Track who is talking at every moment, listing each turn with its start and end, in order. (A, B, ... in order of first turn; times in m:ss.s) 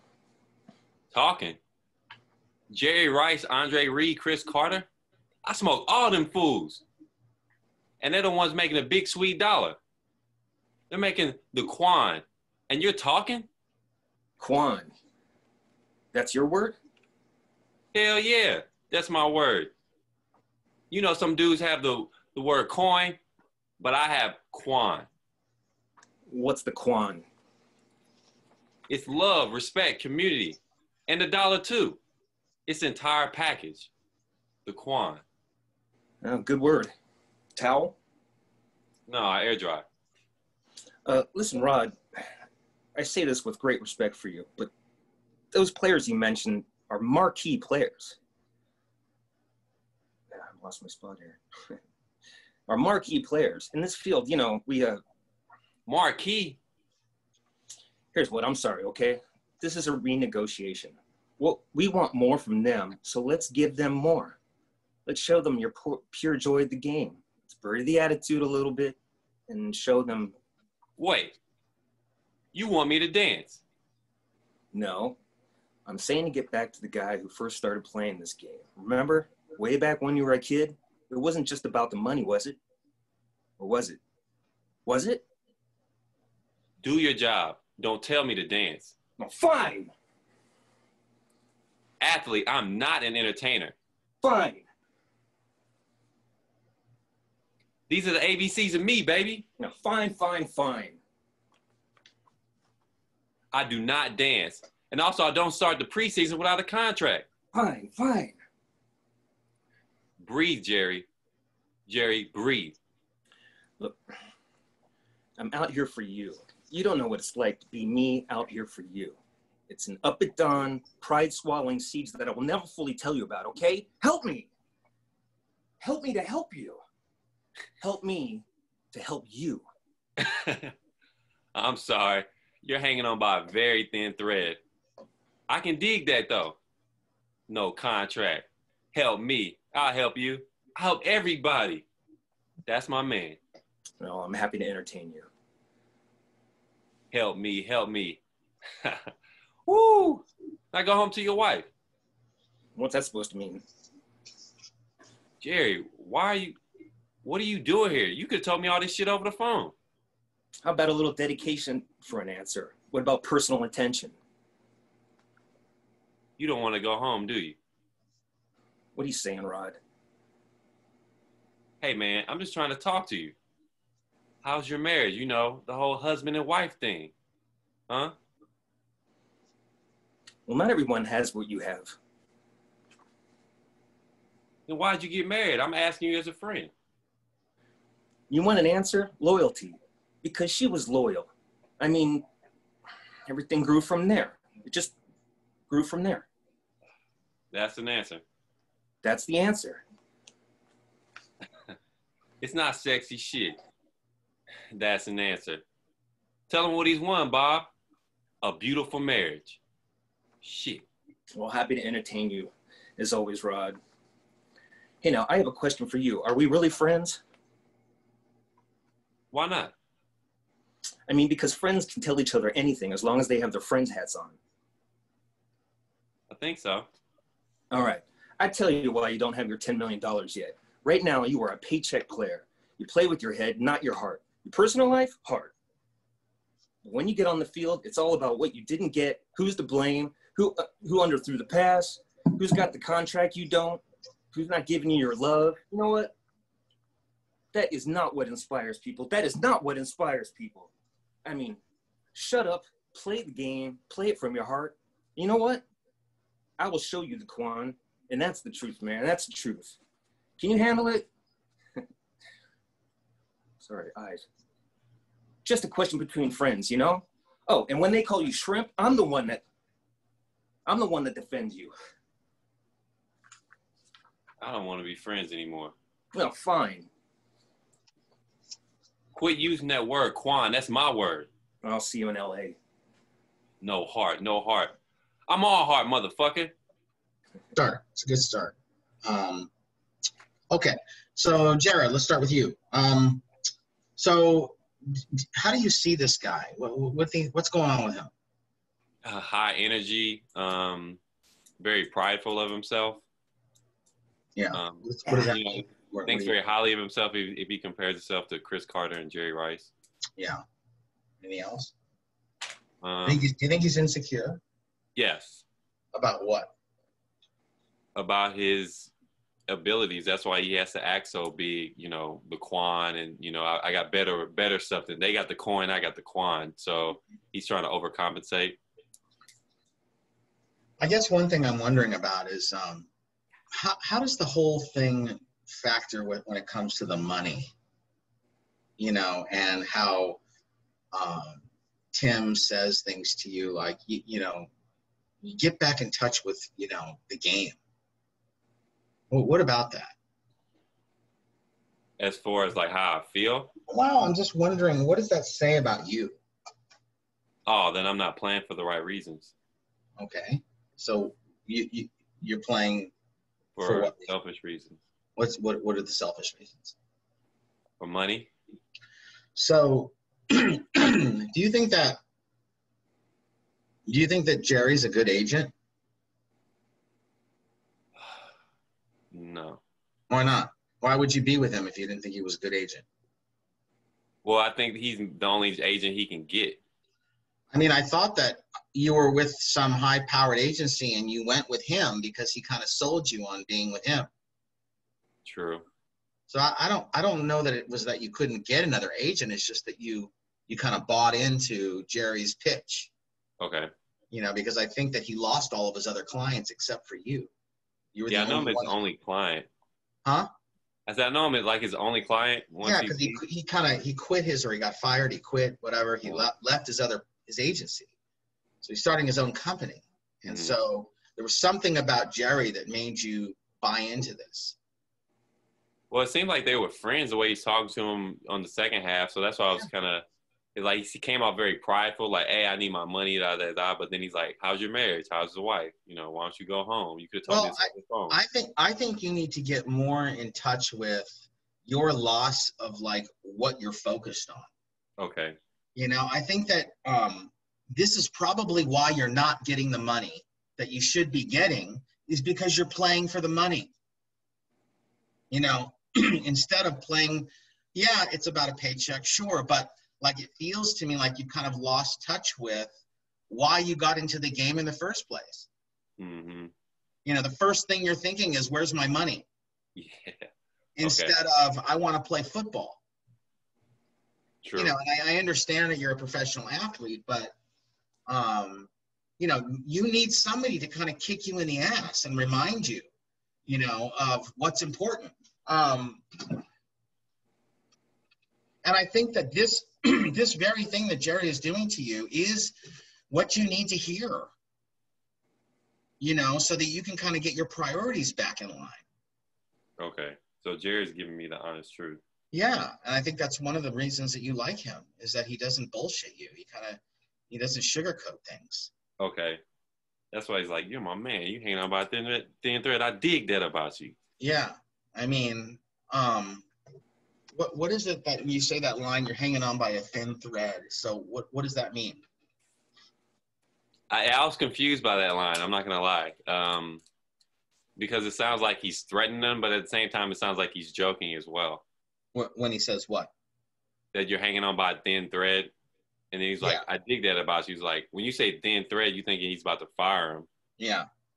0:01.1-0:01.6 A
0:02.7-0:04.9 A
0:05.4-0:06.8 A
0:08.0-0:09.8 A
0:10.9-0:13.5 A
0:14.4-0:14.9 B
0:16.1-0:16.8 B
0:17.9-0:19.7 A
0:20.9-0:23.2 A
0:23.8-0:25.1 A
0:26.3-0:27.2 B
0:28.9-0:32.0 A
0:32.7-0:33.9 A
0:34.7-0:35.2 A
0:36.2-0:36.9 B
0:37.6-0:38.0 B
0:39.1-0:39.8 A
0:41.0-0:42.0 B
0:43.0-0:44.7 B
0:45.5-0:48.2 B
0:50.3-0:51.8 B
0:52.7-0:55.0 B
0:55.9-0:56.6 A
0:58.1-1:04.4 B
1:05.1-1:09.0 B
1:09.5-1:10.4 B
1:11.0-1:11.4 A
1:12.5-1:13.6 A
1:14.7-1:15.2 B
1:15.9-1:22.6 B
1:23.6-1:24.0 B
1:24.9-1:25.2 B
1:26.8-1:29.0 A
1:29.2-1:29.9 B
1:32.0-1:33.8 A
1:34.2-1:34.7 B
1:37.9-1:39.5 A
1:39.6-1:41.0 B
1:43.5-1:47.3 A
1:47.5-1:48.4 B
1:50.2-1:51.1 A
1:51.9-1:52.8 A
1:55.4-2:04.5 B
2:05.8-2:06.8 B
2:07.8-2:09.7 B
2:10.2-2:10.7 A
2:11.6-2:14.6 A
2:15.5-2:16.6 A
2:17.5-2:21.9 A
2:22.7-2:23.4 A
2:24.0-2:25.3 B
2:27.1-2:28.2 A
2:28.8-2:29.1 A
2:29.7-2:31.7 A
2:32.8-2:33.6 B
2:35.4-2:36.6 A
2:37.2-2:39.7 A
2:40.6-2:44.2 B
2:46.4-2:47.6 A
2:49.0-2:49.8 B
2:51.8-2:53.4 A
2:54.4-2:57.1 A
3:00.5-3:02.0 B
3:04.7-3:06.7 A
3:08.3-3:12.2 B
3:13.3-3:15.0 B
3:15.7-3:16.3 B
3:17.5-3:18.2 A
3:19.0-3:19.8 B
3:22.4-3:23.6 A
3:24.7-3:25.6 A
3:26.5-3:27.7 A
3:28.4-3:29.6 A
3:30.4-3:30.9 A
3:31.4-3:33.8 B
3:35.0-3:37.2 B
3:39.3-3:39.8 A
3:41.1-3:44.4 B
3:46.3-3:46.9 A
3:47.7-3:55.5 B
3:56.8-4:06.2 B
4:07.5-4:10.7 B
4:11.2-4:11.6 B
4:12.2-4:15.6 B
4:16.6-4:19.8 B
4:20.4-4:21.1 B
4:23.6-4:24.2 B
4:25.4-4:29.4 B
4:30.7-4:31.7 B
4:34.4-4:35.8 A
4:36.1-4:36.9 B
4:39.1-4:41.3 A
4:41.6-4:42.6 B
4:43.6-4:44.8 A
4:45.3-4:46.6 A
4:47.6-4:49.5 C
4:50.5-4:53.2 C
4:54.0-4:58.1 C
4:59.0-5:01.0 A
5:01.6-5:03.0 A
5:04.4-5:06.3 C
5:04.5-5:09.7 A
5:11.2-5:11.7 C
5:12.8-5:13.2 A
5:13.0-5:14.4 C
5:15.0-5:15.4 A
5:15.9-5:16.5 C
5:18.0-5:18.9 A
5:19.5-5:28.6 A
5:30.8-5:32.9 C
5:33.5-5:37.5 C
5:38.8-5:40.2 C
5:40.9-5:44.5 C
5:45.2-5:47.6 C
5:49.1-5:50.0 C
5:52.0-5:53.5 A
5:53.7-5:56.2 C
5:57.5-5:59.3 A
6:00.0-6:02.9 C
6:03.6-6:04.8 A
6:03.6-6:04.1 C
6:05.2-6:06.8 C
6:07.8-6:08.3 A
6:09.4-6:12.0 C
6:13.9-6:15.5 C
6:19.1-6:19.6 A
6:20.1-6:22.8 C
6:24.2-6:26.6 A
6:27.5-6:34.1 C
6:35.3-6:35.6 A
6:36.3-6:42.9 C
6:43.4-6:43.7 A
6:44.1-6:47.3 C
6:47.9-6:48.8 C
6:48.1-6:49.5 A
6:50.9-6:53.2 A
6:52.6-6:57.9 C
6:56.0-6:56.3 A
6:58.6-7:04.6 C
7:00.3-7:00.6 A
7:05.9-7:18.2 A
7:17.3-7:24.5 C
7:25.0-7:25.4 A
7:25.8-7:33.7 C
7:35.3-7:42.7 C
7:43.3-7:45.5 C
7:46.0-7:46.5 A
7:47.0-7:49.3 C
7:49.8-7:50.3 A
7:50.8-7:52.8 C
7:50.8-7:51.1 A
7:54.4-7:54.8 A
7:54.6-7:57.4 C
7:58.1-8:02.9 C
8:03.5-8:06.4 C
8:08.6-8:12.5 C
8:13.1-8:14.3 C
8:16.0-8:18.8 C
8:19.8-8:22.0 A
8:22.3-8:28.7 C
8:29.0-8:29.4 A
8:30.1-8:34.0 A
8:34.2-8:36.5 C
8:37.3-8:42.0 C
8:43.9-8:46.8 A
8:47.8-8:51.6 A
8:52.1-8:53.1 C
8:53.9-8:55.5 A
8:56.1-9:00.3 A
9:00.6-9:00.9 C